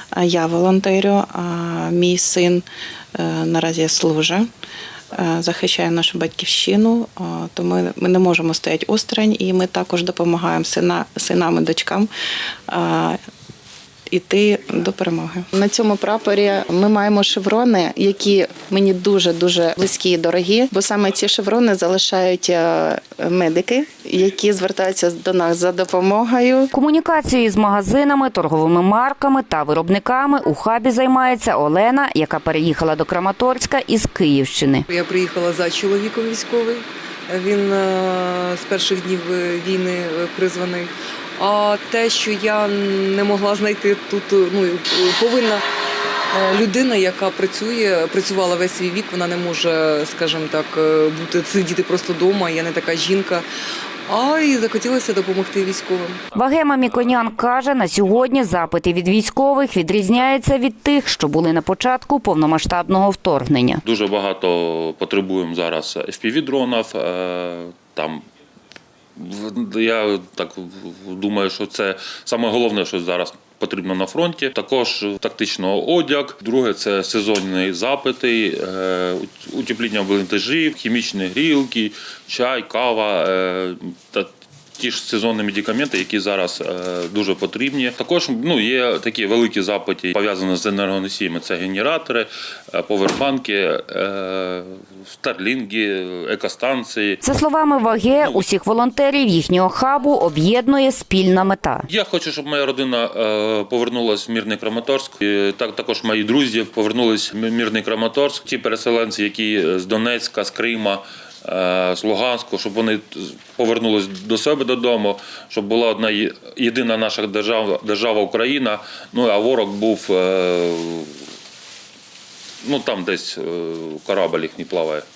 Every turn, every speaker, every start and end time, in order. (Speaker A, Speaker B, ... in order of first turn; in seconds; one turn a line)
Speaker A: 0.1-2.6
Speaker A: 3.2-4.4
Speaker A: 5.1-12.1
Speaker A: 12.7-13.2
Speaker A: 14.1-26.7
Speaker B: 26.7-34.9
Speaker C: 34.9-45.6
Speaker C: 46.3-53.4
Speaker C: 54.1-56.2
Speaker B: 56.3-63.8
Speaker D: 63.8-68.2
Speaker D: 69.2-97.2
Speaker B: 97.2-101.9
Speaker D: 98.2-98.4
Speaker D: 101.9-121.1
Speaker D: 122.6-125.0